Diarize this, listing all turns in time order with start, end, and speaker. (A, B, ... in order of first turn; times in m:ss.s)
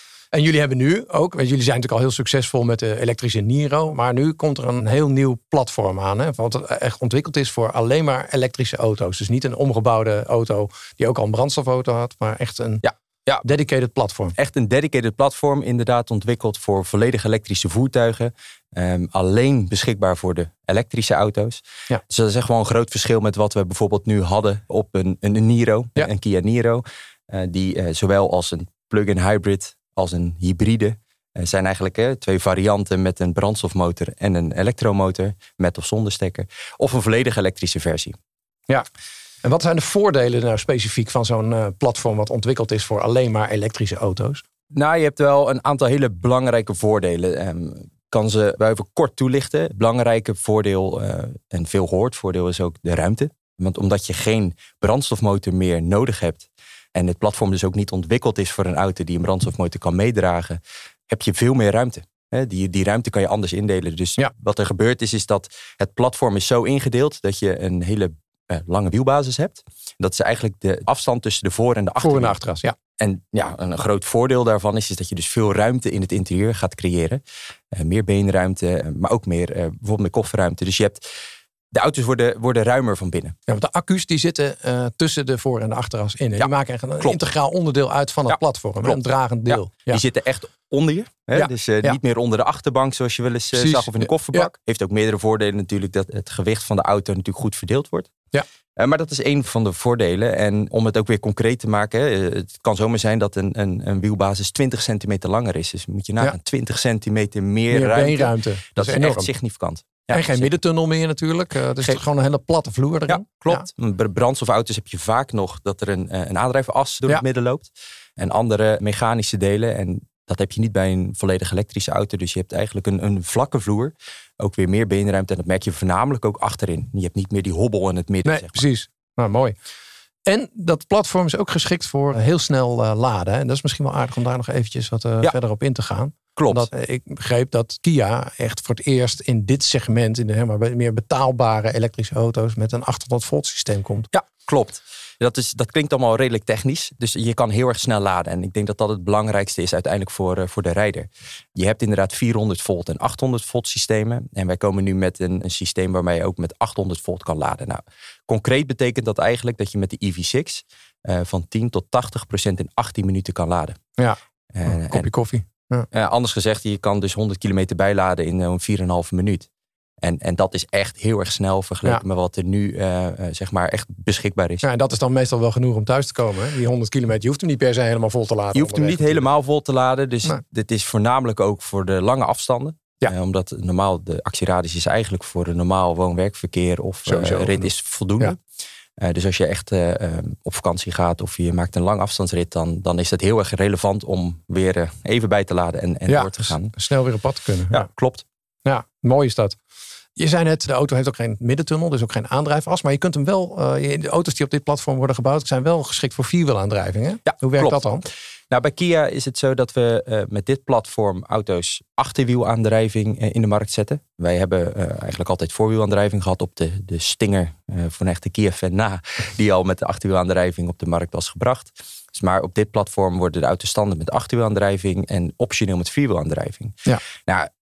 0:00.3-0:12.8 A
0:12.8-0:13.4 B
0:13.4-0:14.3 A
0:14.4-0:38.1 B
0:39.4-0:44.4 A
0:44.7-1:12.4 B
1:12.0-1:12.7 A
1:13.0-1:17.2 B
1:17.7-1:21.0 B
1:21.7-1:23.3 B
1:23.5-1:30.0 A
1:26.4-1:27.2 B
1:28.3-1:38.1 B
1:31.3-1:32.0 A
1:33.5-1:34.5 A
1:38.8-1:50.5 B
1:47.7-1:49.3 A
1:50.1-1:53.7 A
1:53.1-2:08.6 B
2:08.2-2:09.5 A
2:10.3-2:24.1 A
2:16.4-2:16.7 B
2:24.1-2:43.8 B
2:44.0-2:45.9 A
2:44.5-2:45.1 B
2:45.9-2:49.5 B
2:50.0-2:54.6 B
2:54.6-2:59.2 A
2:58.5-3:08.4 B
3:07.0-3:07.7 A
3:09.0-3:16.7 B
3:16.1-3:17.8 A
3:17.7-3:18.2 B
3:18.6-3:19.6 A
3:20.2-3:28.1 A
3:27.3-3:27.8 B
3:28.5-3:47.5 B